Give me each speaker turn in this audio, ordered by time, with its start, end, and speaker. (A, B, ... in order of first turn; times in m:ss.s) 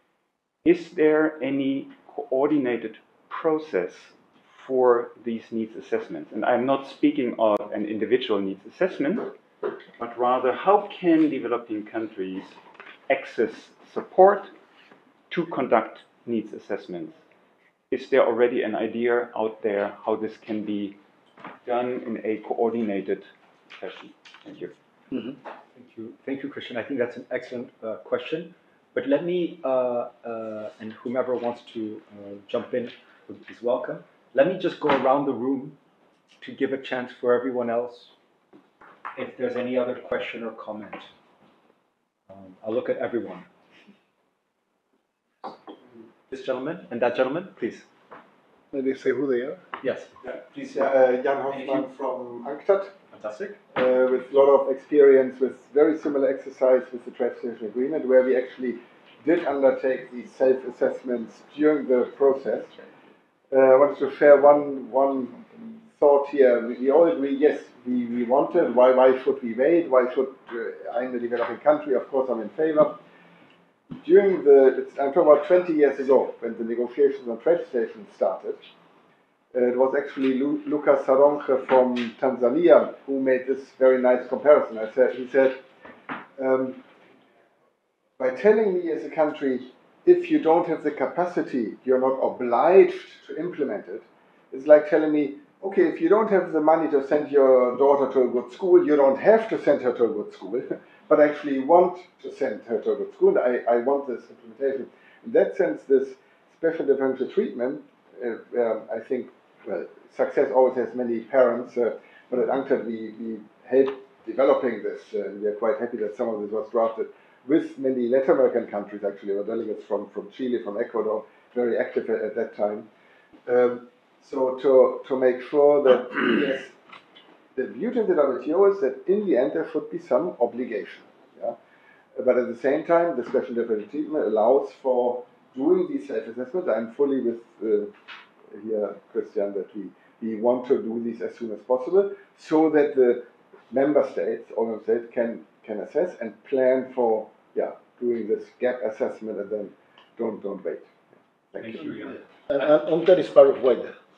0:00.6-0:09.3 A
0:10.0-0:14.5 A
0:15.3-0:17.2 A
0:17.9-0:21.0 A
0:21.6-0:24.7 A
0:25.7-0:35.8 B
0:36.4-0:38.1 B
0:39.1-0:41.1 B
0:42.3-0:43.5 B
0:46.3-0:47.9 B
0:48.7-0:49.6 C
0:49.8-0:50.8 B
0:50.2-0:52.9 D
0:51.5-0:51.8 B
0:53.1-0:53.6 B
0:53.7-1:02.8 D
1:03.5-1:13.0 D
1:14.0-1:18.6 D
1:19.5-1:25.6 D
1:26.4-1:26.8 D
1:28.2-2:02.9 D
2:03.4-2:06.7 D
2:07.5-2:11.6 D
2:12.2-2:17.9 D
2:18.5-2:30.9 D
2:31.5-2:32.1 D
2:31.6-2:32.2 B
2:32.5-2:33.9 C